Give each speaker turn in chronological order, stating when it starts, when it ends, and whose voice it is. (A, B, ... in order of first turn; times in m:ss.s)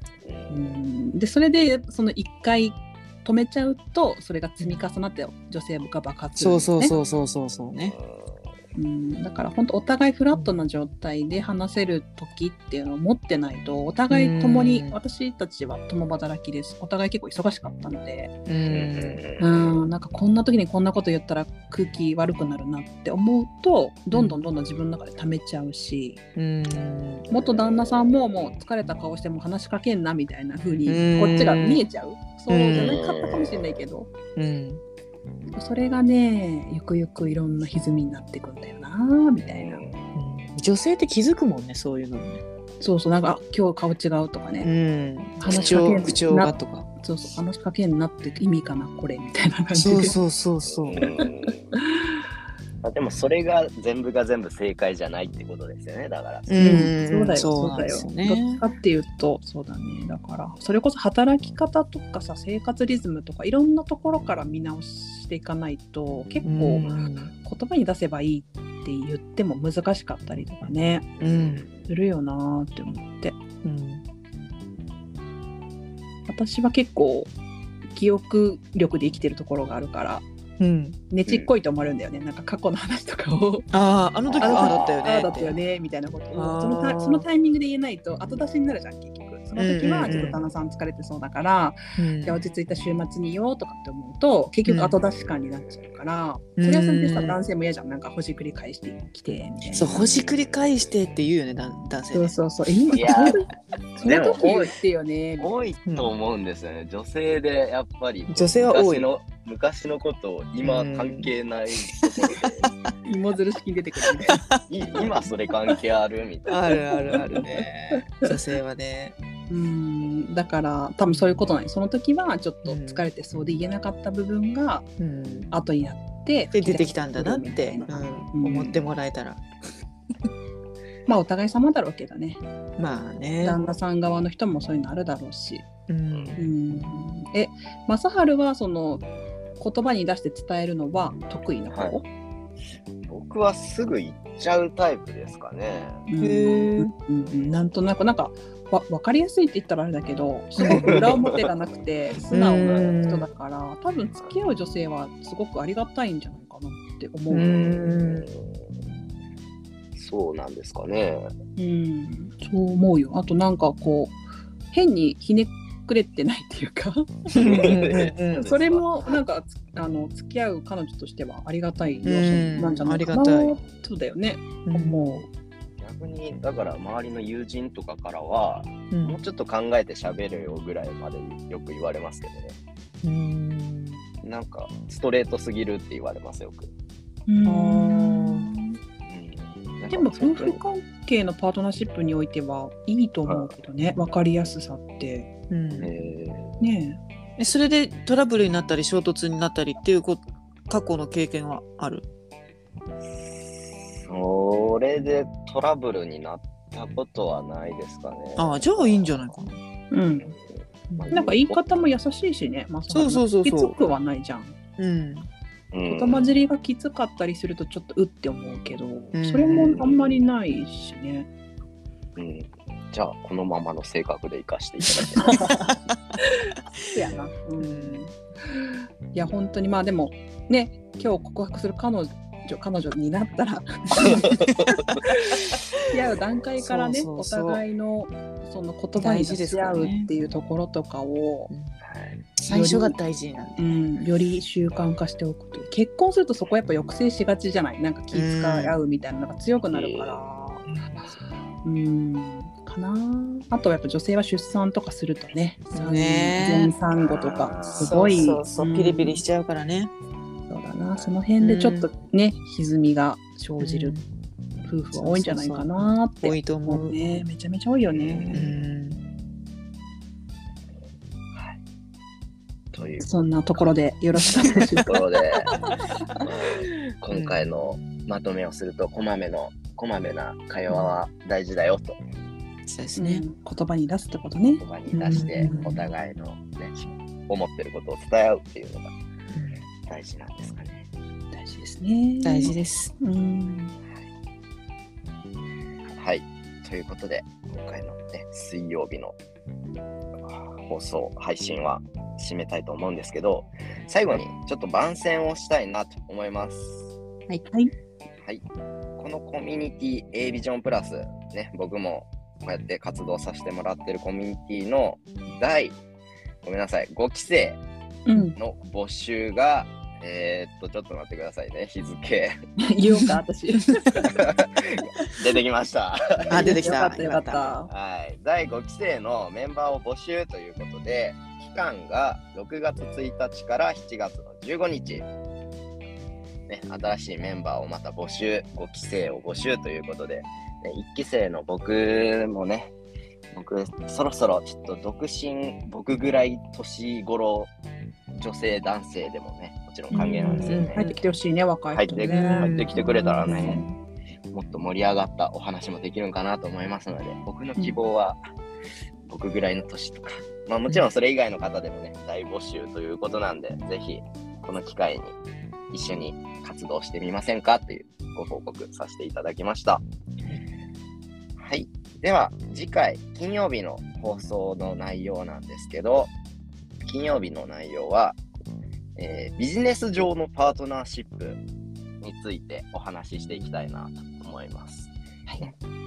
0:00.2-0:00.7 A
0:00.5-0:06.9 B
0:06.4-0:08.0 C
0:07.9-0:08.5 A
0:08.8-0:18.3 B
0:14.1-0:15.0 C
0:18.5-0:19.2 C
0:18.7-0:19.8 A
0:19.4-0:26.2 B
0:24.1-0:24.4 C
0:26.4-0:27.3 C
0:27.3-0:34.1 B
0:27.3-0:27.9 A
0:30.9-0:31.8 C
0:32.5-0:33.0 C
0:32.7-0:33.6 A
0:34.4-0:34.8 C
0:35.5-0:39.8 B
0:39.4-0:40.1 A
0:40.2-0:42.4 C
0:42.8-0:44.7 B
0:44.6-0:46.9 C
0:45.4-0:50.2 B
0:45.5-0:46.0 A
0:49.7-0:51.0 C
0:50.7-0:51.7 A
0:51.2-0:52.1 B
0:52.8-0:56.8 A
0:56.5-0:58.6 C
0:56.6-1:11.1 B
1:06.4-1:07.3 C
1:11.2-1:11.9 A
1:11.2-1:11.7 C
1:11.9-1:13.4 B
1:13.6-1:14.0 C
1:16.3-1:17.3 B
1:17.9-1:20.2 B
1:20.6-1:21.0 C
1:21.1-1:23.7 B
1:23.7-1:25.6 C
1:24.3-1:24.9 A
1:24.4-1:40.0 B
1:26.3-1:27.2 C
1:29.6-1:30.4 C
1:32.0-1:32.4 C
1:34.7-1:35.0 C
1:36.6-1:37.4 C
1:39.7-1:42.4 C
1:39.8-1:40.9 A
1:42.1-1:45.5 B
1:42.9-1:43.4 A
1:44.0-1:44.8 A
1:45.4-1:52.7 A
1:45.9-1:46.1 C
1:48.3-1:49.1 C
1:50.6-1:51.3 C
1:51.9-1:52.7 C
1:53.1-1:54.4 B
1:54.2-1:55.1 C
1:54.3-1:57.1 A
1:56.5-1:59.2 C
1:57.1-1:57.5 B
1:59.5-2:04.9 B
2:01.1-2:01.5 C
2:02.6-2:03.1 C
2:05.0-2:05.5 C
2:05.5-2:08.8 B
2:06.5-2:09.4 C
2:11.1-2:12.4 B
2:12.8-2:13.6 C
2:13.4-2:15.7 B
2:15.9-2:16.4 C
2:16.1-2:16.4 A
2:16.4-2:19.0 B
2:19.6-2:22.1 B
2:23.1-2:26.0 A
2:26.1-2:37.6 B
2:26.2-2:26.9 C
2:30.6-2:31.2 C
2:30.7-2:31.5 A
2:32.3-2:33.3 C
2:37.3-2:38.3 C
2:37.4-2:38.7 A
2:40.0-2:41.3 A
2:41.6-2:44.2 B
2:44.7-2:47.8 B
2:47.3-2:48.5 C
2:47.4-2:49.2 A
2:48.3-2:55.3 B
2:52.0-2:53.5 C
2:53.6-2:53.8 A
2:54.7-2:55.2 C
2:55.8-3:02.6 A
2:58.9-2:59.2 C
3:03.0-3:04.0 C
3:04.2-3:06.7 A
3:07.3-3:08.8 B
3:07.5-3:08.5 C
3:09.1-3:10.6 A
3:09.9-3:15.3 B
3:13.3-3:13.5 A
3:15.5-3:15.9 C
3:15.8-3:16.6 A
3:16.6-3:17.0 B
3:17.4-3:22.0 C
3:23.1-3:29.2 A
3:28.4-3:29.6 C
3:29.9-3:30.4 B
3:30.2-3:31.6 A
3:30.9-3:31.2 C
3:31.1-3:34.6 B
3:32.9-3:33.8 C
3:34.8-3:35.3 C
3:35.7-3:36.3 A
3:35.9-3:41.3 B
3:39.1-3:39.8 C
3:39.5-3:40.2 A
3:42.2-3:45.3 A
3:45.0-3:45.9 C
3:45.2-3:45.7 B
3:46.3-3:54.5 B
3:47.6-3:48.0 C
3:54.5-3:54.8 C
3:54.7-3:55.0 A
3:55.3-3:55.6 C
3:55.9-4:01.5 B
3:56.6-3:57.6 C
3:59.0-4:00.1 C
4:01.5-4:01.8 C
4:01.8-4:02.2 A
4:02.4-4:03.8 C
4:02.5-4:03.0 B
4:03.6-4:10.7 B
4:08.1-4:08.8 C
4:09.7-4:10.2 A
4:11.6-4:19.2 B
4:15.7-4:16.7 C
4:17.0-4:18.3 A
4:17.8-4:19.9 C
4:20.5-4:24.0 B
4:21.4-4:21.9 C
4:23.6-4:24.0 C
4:24.6-4:28.5 B
4:25.0-4:27.0 C
4:27.9-4:28.5 A
4:28.3-4:29.0 C
4:32.7-4:33.7 A
4:33.0-4:35.0 B
4:34.8-4:35.5 A
4:35.6-4:36.2 B
4:36.2-4:42.0 A
4:37.1-4:37.4 C
4:42.7-4:43.2 C
4:43.0-4:45.7 B
4:44.6-4:48.9 A
4:45.1-4:45.9 C
4:49.3-4:49.6 C
4:49.9-4:50.9 A
4:51.3-4:53.8 B
4:52.2-4:52.9 C
4:55.9-4:59.2 A
5:00.3-5:06.9 A
5:07.3-5:07.7 B
5:09.0-5:15.8 A
5:16.4-5:17.6 A
5:18.1-5:18.4 B
5:18.4-5:22.4 A
5:22.6-5:24.1 B
5:24.0-5:26.6 A
5:26.3-5:27.5 C
5:26.3-5:27.7 B
5:27.7-5:35.1 A
5:36.5-5:42.7 A
5:43.3-5:47.5 A
5:48.1-5:50.8 A
5:49.9-5:53.8 B
5:50.2-5:51.0 C
5:51.7-5:53.6 A
5:51.9-5:53.6 C
5:54.3-5:58.2 A
5:59.1-6:05.2 A
6:05.7-6:09.8 A
6:11.4-6:16.1 A
6:16.8-6:18.2 A
6:19.0-6:21.4 A
6:22.0-6:24.9 A
6:25.3-6:25.5 B